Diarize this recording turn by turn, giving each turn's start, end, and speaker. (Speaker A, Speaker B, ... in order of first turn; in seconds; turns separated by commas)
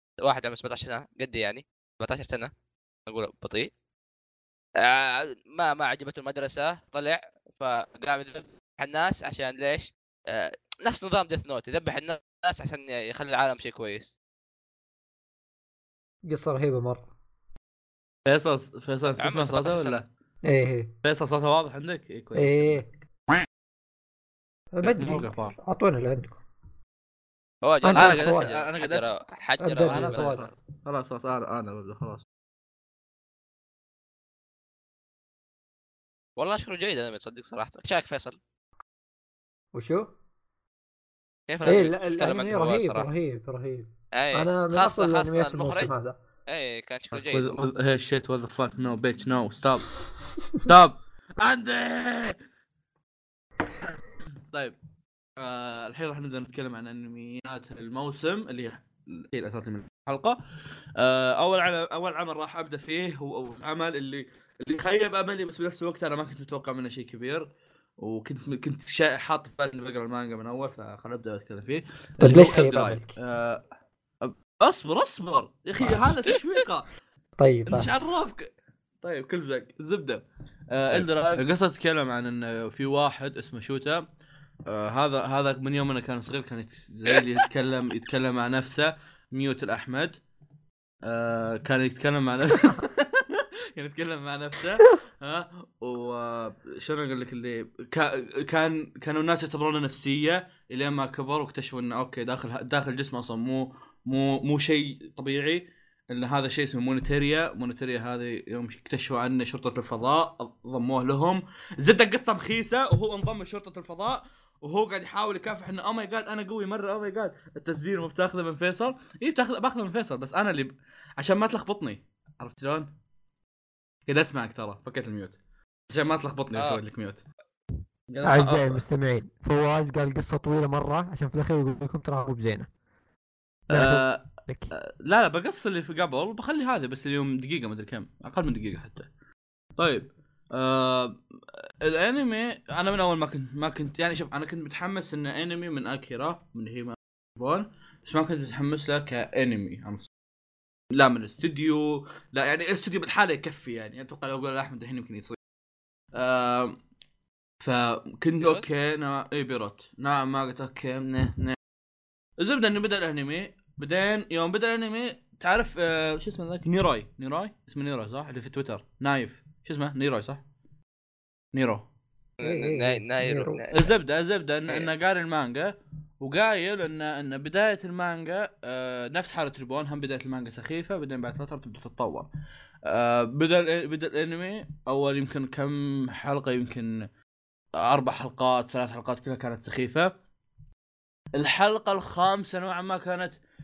Speaker A: 0.2-2.5, Speaker A: 3.1-3.7, Speaker A: 4.8-14.2, Speaker B: 16.2-17.1, Speaker C: 18.3-20.1, Speaker A: 19.2-20.0, Speaker B: 20.4-20.9, Speaker C: 21.0-23.4, Speaker B: 22.4-22.9, Speaker B: 24.7-26.4, Speaker C: 24.8-25.6, Speaker A: 27.6-30.5, Speaker B: 27.8-28.6, Speaker C: 27.9-29.1, Speaker B: 29.6-30.5, Speaker C: 29.9-32.2, Speaker A: 36.4-38.4, Speaker B: 39.7-40.1, Speaker A: 41.5-43.1, Speaker B: 41.6-46.2, Speaker A: 44.1-45.9, Speaker A: 46.5-47.6, Speaker C: 47.1-49.9, Speaker C: 50.6-52.4, Speaker C: 54.5-54.8, Speaker C: 55.4-60.4, Speaker C: 61.0-67.5, Speaker C: 68.0-73.6, Speaker B: 72.2-73.2, Speaker C: 74.2-76.9, Speaker B: 77.4-78.0, Speaker C: 77.7-78.5, Speaker C: 79.0-84.0, Speaker C: 84.7-90.2, Speaker C: 91.0-122.9, Speaker C: 124.1-125.4, Speaker C: 125.9-127.2, Speaker A: 126.5-126.8, Speaker C: 128.1-128.8, Speaker B: 128.2-132.7, Speaker B: 133.7-134.7, Speaker C: 133.7-139.1, Speaker C: 139.8-150.1, Speaker C: 150.9-155.4, Speaker C: 156.1-156.8, Speaker C: 157.6-161.6, Speaker A: 158.4-158.7, Speaker C: 162.4-170.4, Speaker C: 171.5-171.9, Speaker A: 172.4-173.9, Speaker B: 172.4-173.6, Speaker C: 173.7-182.3, Speaker C: 182.9-187.1, Speaker C: 187.8-190.1, Speaker C: 191.4-193.4